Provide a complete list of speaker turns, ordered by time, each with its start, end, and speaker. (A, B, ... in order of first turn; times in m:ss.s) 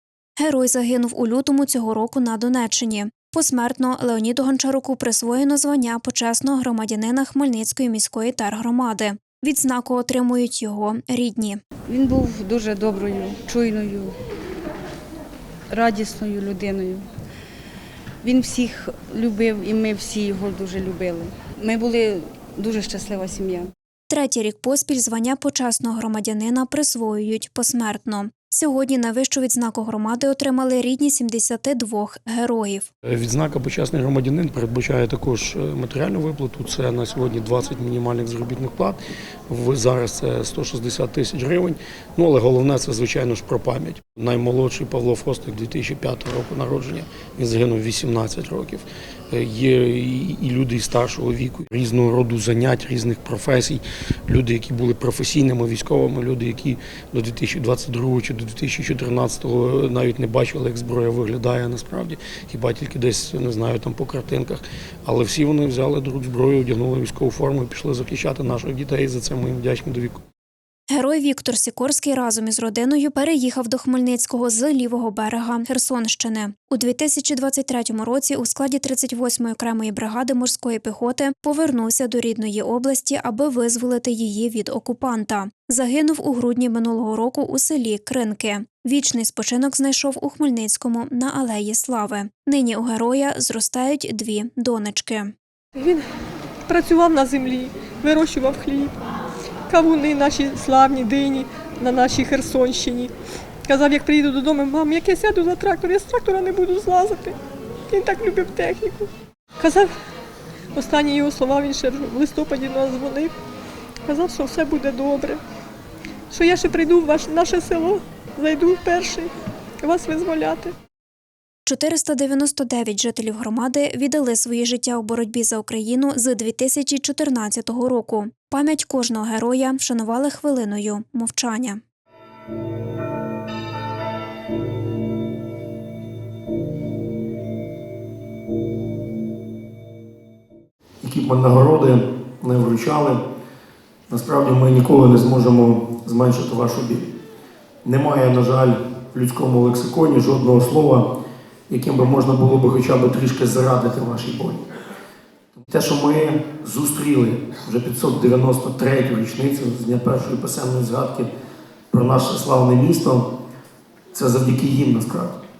0:00.4-0:11.6 A
0:11.9-0:14.1 B
0:15.7-0:17.0 B
0:18.2-0:23.7 B
0:24.1-0:32.9 A
0:33.0-0:39.0 C
0:39.5-1:10.2 C
1:10.9-1:35.3 A
1:35.7-1:36.0 D
1:36.7-1:39.0 D
1:39.7-1:43.1 D
1:43.7-1:47.4 D
1:47.9-1:49.9 D
1:50.7-1:53.3 D
1:54.1-1:55.4 D
1:56.3-1:59.3 D
1:59.8-2:00.7 D
2:01.6-2:11.8 A
2:21.0-2:23.2 C
2:24.1-2:27.1 C
2:27.8-2:31.1 C
2:31.7-2:34.6 C
2:35.5-2:41.3 C
2:41.9-2:43.2 C
2:44.1-2:45.4 C